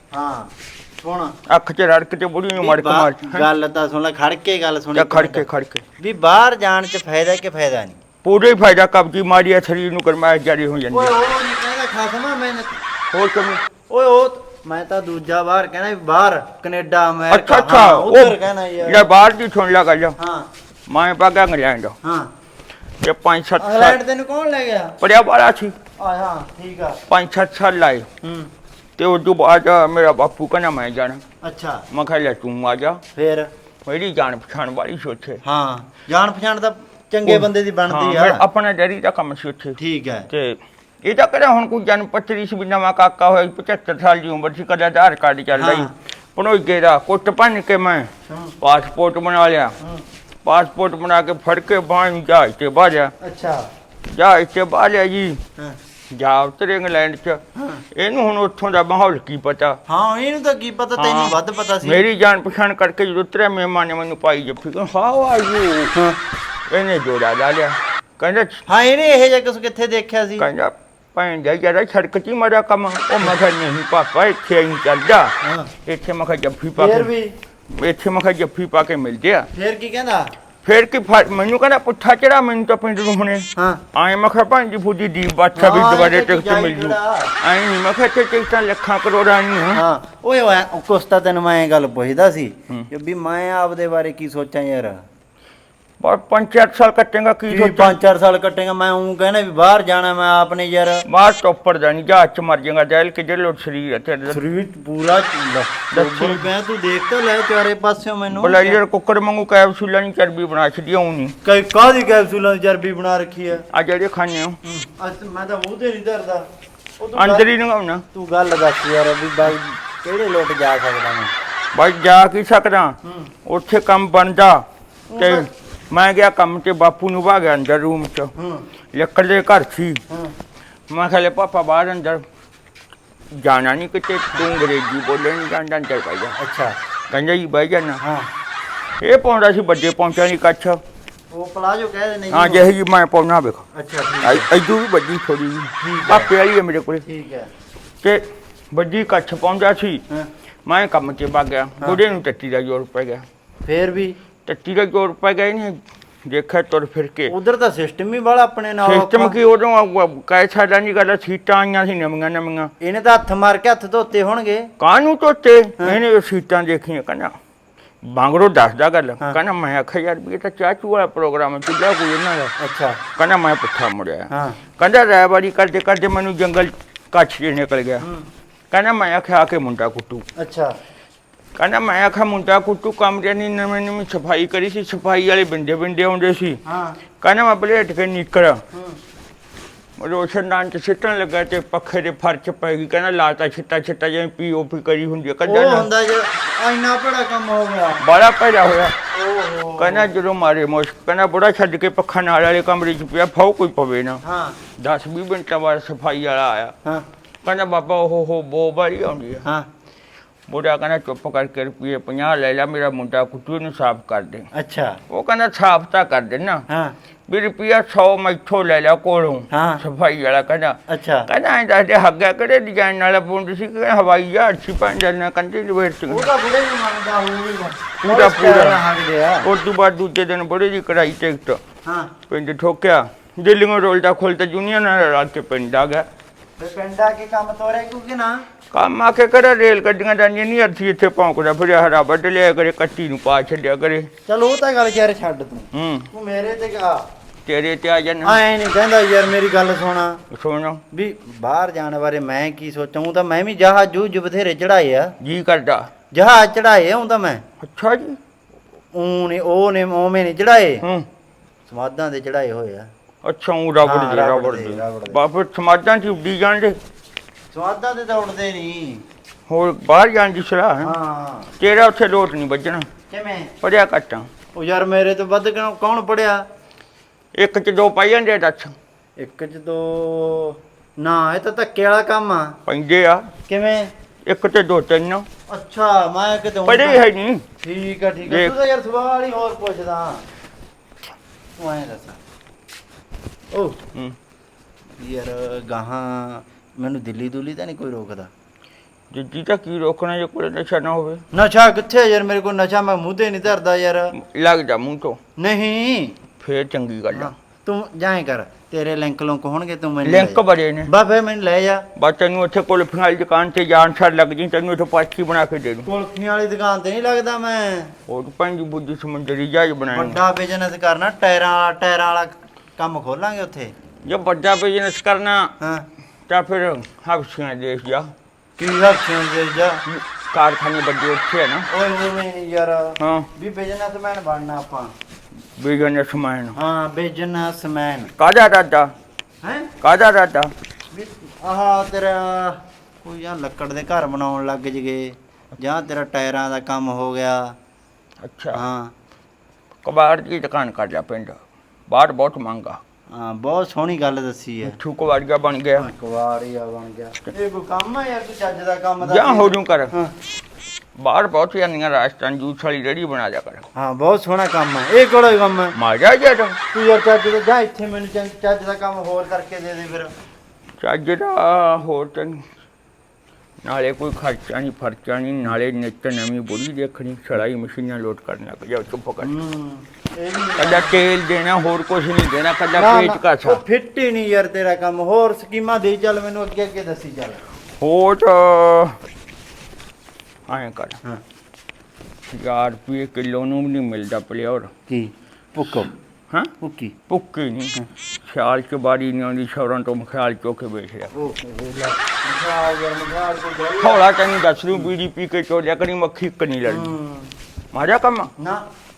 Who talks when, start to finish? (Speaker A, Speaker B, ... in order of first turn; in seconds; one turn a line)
Speaker A: 0.1-1.4
Speaker B: 1.5-3.5
Speaker A: 2.6-5.5
Speaker B: 4.9-5.8
Speaker A: 6.0-8.0
Speaker B: 8.2-11.1
Speaker A: 10.9-12.8
Speaker B: 13.1-13.6
Speaker A: 13.9-19.1
Speaker B: 17.3-20.2
Speaker A: 20.2-20.5
Speaker B: 20.9-22.0
Speaker A: 22.0-22.3
Speaker B: 23.0-24.0
Speaker A: 23.6-25.0
Speaker B: 25.0-25.8
Speaker A: 26.0-27.0
Speaker B: 27.1-28.1
Speaker A: 28.2-28.5
Speaker B: 29.0-31.2
Speaker A: 31.4-31.9
Speaker B: 31.9-33.0
Speaker A: 33.1-33.5
Speaker B: 33.9-35.4
Speaker A: 35.4-38.4
Speaker B: 37.3-39.8
Speaker A: 39.8-40.3
Speaker B: 40.3-48.1
Speaker A: 45.6-45.9
Speaker A: 48.3-48.5
Speaker B: 48.6-49.8
Speaker B: 50.4-53.1
Speaker A: 53.2-53.7
Speaker B: 54.1-55.4
Speaker B: 56.1-57.4
Speaker A: 57.6-57.8
Speaker B: 57.9-59.8
Speaker A: 59.9-62.0
Speaker B: 61.0-66.0
Speaker B: 66.7-68.6
Speaker A: 68.7-70.5
Speaker B: 70.4-75.3
Speaker A: 75.4-75.7
Speaker B: 75.8-77.1
Speaker A: 76.8-77.3
Speaker B: 77.7-79.5
Speaker A: 79.5-80.3
Speaker B: 80.6-89.8
Speaker A: 83.6-83.8
Speaker A: 85.5-87.3
Speaker A: 89.7-95.0
Speaker B: 96.0-98.0
Speaker A: 97.5-101.0
Speaker B: 101.1-104.4
Speaker A: 104.3-108.8
Speaker B: 105.9-106.5
Speaker B: 108.3-111.3
Speaker A: 111.4-113.7
Speaker B: 113.7-114.6
Speaker A: 114.7-116.5
Speaker A: 117.0-117.5
Speaker B: 117.2-118.1
Speaker A: 118.1-121.3
Speaker B: 121.7-124.6
Speaker A: 123.0-123.3
Speaker A: 125.1-125.5
Speaker B: 125.2-128.3
Speaker A: 128.4-128.7
Speaker B: 128.9-130.0
Speaker A: 130.1-130.3
Speaker B: 130.9-132.2
Speaker B: 133.3-136.4
Speaker A: 136.4-136.8
Speaker B: 137.1-138.0
Speaker A: 138.0-138.3
Speaker B: 139.0-140.8
Speaker A: 141.3-142.7
Speaker B: 142.3-143.6
Speaker A: 143.7-144.5
Speaker B: 144.2-147.1
Speaker A: 145.8-146.3
Speaker A: 147.1-147.5
Speaker B: 148.0-150.0
Speaker B: 150.7-153.2
Speaker A: 153.7-154.2
Speaker B: 154.5-157.3
Speaker A: 157.3-159.4
Speaker B: 158.8-162.7
Speaker A: 162.8-164.7
Speaker B: 164.8-167.3
Speaker B: 168.0-172.5
Speaker A: 172.6-173.0
Speaker B: 173.2-178.1
Speaker A: 174.3-174.6
Speaker A: 178.0-178.3
Speaker B: 178.7-180.3
Speaker A: 180.4-180.8
Speaker B: 181.6-186.6
Speaker A: 186.7-187.0
Speaker B: 187.2-188.6
Speaker A: 188.7-189.0
Speaker B: 190.0-195.9
Speaker A: 195.5-198.0
Speaker B: 198.0-199.0
Speaker A: 199.1-200.1
Speaker B: 199.8-204.2
Speaker A: 204.2-204.6
Speaker B: 204.8-206.8
Speaker B: 207.4-209.5
Speaker B: 210.5-214.5
Speaker A: 214.5-215.0
Speaker B: 215.1-216.6
Speaker A: 216.7-216.9
Speaker B: 217.3-226.3
Speaker A: 219.5-219.8
Speaker A: 220.9-221.3
Speaker A: 226.1-229.5
Speaker B: 228.1-228.8
Speaker B: 229.4-231.6
Speaker A: 231.8-232.1
Speaker B: 232.3-236.1
Speaker A: 236.6-238.5
Speaker B: 238.7-244.1
Speaker A: 244.3-247.1
Speaker B: 245.7-246.1
Speaker B: 247.5-248.4
Speaker A: 248.2-250.2
Speaker B: 250.3-250.8
Speaker A: 250.9-255.2
Speaker B: 255.2-255.9
Speaker A: 256.1-257.4
Speaker B: 257.6-258.2
Speaker A: 258.9-260.8
Speaker A: 261.7-262.9
Speaker B: 263.2-266.8
Speaker A: 263.8-265.2
Speaker A: 267.5-269.0
Speaker B: 269.5-270.9
Speaker A: 270.8-271.5
Speaker B: 271.6-272.9
Speaker A: 273.1-273.5
Speaker B: 273.6-274.3
Speaker A: 274.6-276.4
Speaker B: 277.4-278.8
Speaker A: 279.2-282.6
Speaker B: 282.7-283.3
Speaker A: 283.5-283.9
Speaker B: 284.3-285.3
Speaker A: 285.5-287.0
Speaker B: 286.7-287.5
Speaker A: 287.6-290.2
Speaker B: 288.3-288.5
Speaker A: 291.6-292.2
Speaker A: 293.5-293.8
Speaker A: 295.0-298.3
Speaker B: 299.1-301.2
Speaker A: 301.3-304.1
Speaker B: 304.1-305.2
Speaker A: 305.4-306.2
Speaker B: 306.4-307.3
Speaker A: 307.1-311.9
Speaker B: 310.1-310.9
Speaker B: 312.0-315.9
Speaker A: 315.9-317.9
Speaker B: 318.1-320.2
Speaker A: 319.9-323.7
Speaker B: 324.1-325.5
Speaker A: 325.6-325.9
Speaker B: 326.3-328.1
Speaker A: 328.6-329.8
Speaker B: 329.9-331.7
Speaker A: 331.7-334.9
Speaker B: 333.0-333.3
Speaker B: 335.6-336.6
Speaker A: 336.6-338.1
Speaker B: 338.2-338.9
Speaker A: 339.4-339.7
Speaker B: 339.8-340.5
Speaker A: 340.9-347.6
Speaker B: 348.2-348.6
Speaker A: 348.5-348.9
Speaker B: 349.8-352.8
Speaker A: 353.1-354.8
Speaker B: 354.6-355.9
Speaker A: 355.8-360.1
Speaker B: 359.0-359.9
Speaker B: 361.0-363.7
Speaker A: 363.8-365.8
Speaker B: 365.8-366.6
Speaker A: 366.7-370.1
Speaker B: 370.8-372.4
Speaker B: 373.6-379.3
Speaker A: 379.2-381.0
Speaker B: 380.6-383.6
Speaker A: 382.8-387.4
Speaker B: 387.8-389.0
Speaker B: 390.5-391.0
Speaker B: 392.3-394.7
Speaker A: 394.9-395.9
Speaker A: 396.6-396.9
Speaker B: 397.1-401.1
Speaker A: 401.1-404.0
Speaker B: 403.8-406.9
Speaker A: 406.7-407.3
Speaker B: 407.7-408.3
Speaker A: 408.4-408.6